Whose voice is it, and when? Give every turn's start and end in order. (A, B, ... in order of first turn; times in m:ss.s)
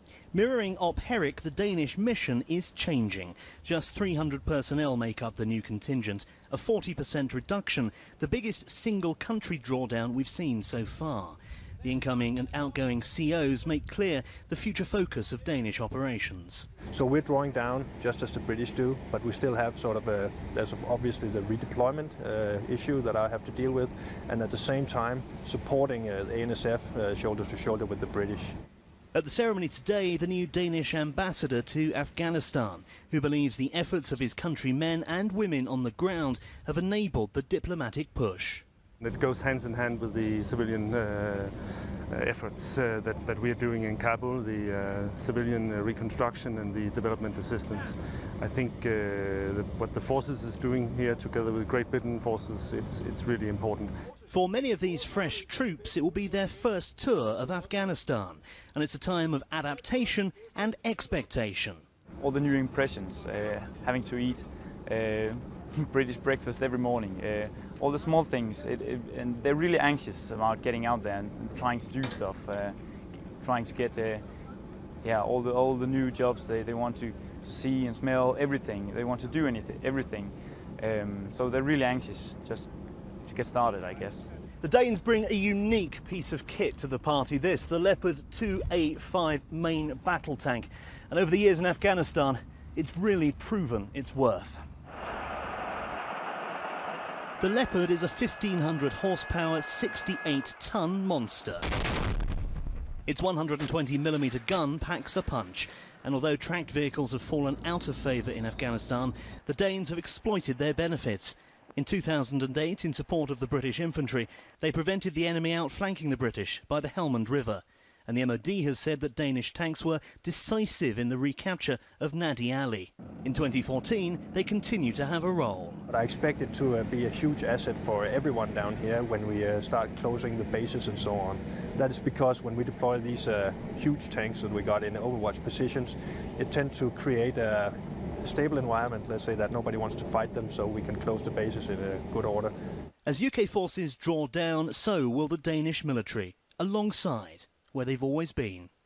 0:00.3-0:16.7 A
0:16.9-0:28.5 B
0:29.1-0:38.6 A
0:39.0-0:41.5 C
0:42.1-0:53.9 C
0:54.3-1:01.8 A
1:02.2-1:14.3 D
1:15.0-1:22.7 D
1:23.2-1:24.3 D
1:24.6-1:34.6 A
1:37.4-1:41.7 A
1:43.1-2:05.8 A
2:05.9-2:22.5 B
2:23.0-2:28.7 A